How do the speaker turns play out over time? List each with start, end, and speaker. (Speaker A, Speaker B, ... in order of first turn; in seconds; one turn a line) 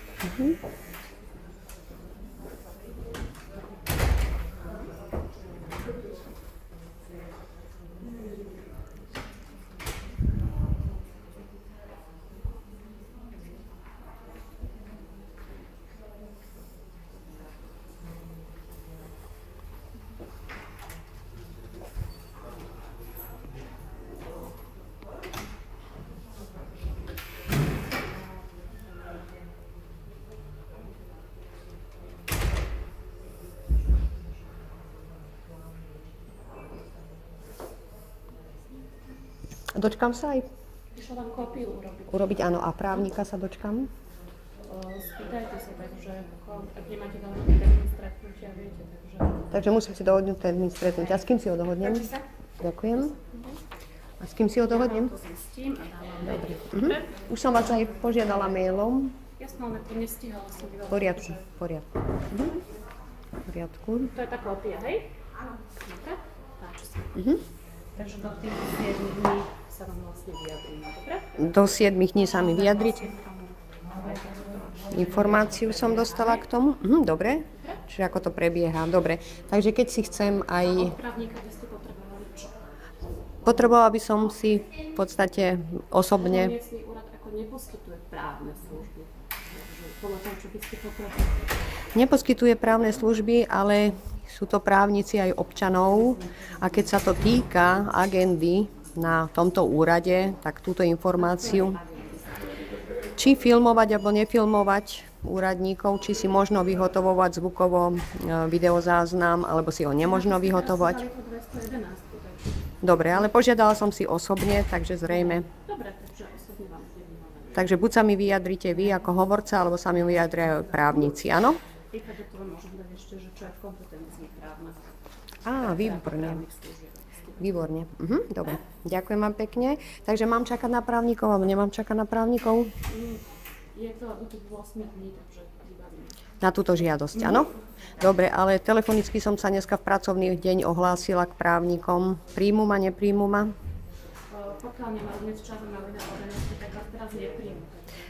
Speaker A: 0.2-0.6
Speaker A: 39.8-40.5
Speaker B: 40.9-43.1
Speaker A: 42.1-43.9
Speaker B: 44.7-49.5
Speaker A: 49.5-53.2
Speaker B: 51.8-52.2
Speaker B: 53.2-53.6
Speaker A: 54.2-55.1
Speaker B: 54.7-57.2
Speaker A: 56.2-59.2
Speaker B: 59.4-61.4
Speaker A: 60.9-62.5
Speaker B: 62.3-62.6
Speaker A: 63.4-64.1
Speaker B: 64.1-65.1
Speaker B: 65.7-67.2
Speaker A: 67.1-67.4
Speaker B: 67.9-76.5
Speaker A: 71.4-73.1
Speaker A: 74.9-81.0
Speaker B: 77.5-77.8
Speaker B: 80.6-82.6
Speaker A: 83.4-86.5
Speaker B: 86.1-91.5
Speaker A: 91.9-101.8
Speaker B: 101.1-102.8
Speaker A: 103.2-111.0
Speaker B: 110.0-112.6
Speaker A: 112.8-115.5
Speaker B: 115.1-117.8
Speaker A: 117.5-121.6
Speaker B: 120.0-121.1
Speaker B: 121.9-127.6
Speaker A: 125.4-126.4
Speaker A: 127.4-132.7
Speaker B: 132.9-136.2
Speaker A: 136.4-143.5
Speaker B: 137.1-137.6
Speaker B: 144.3-147.9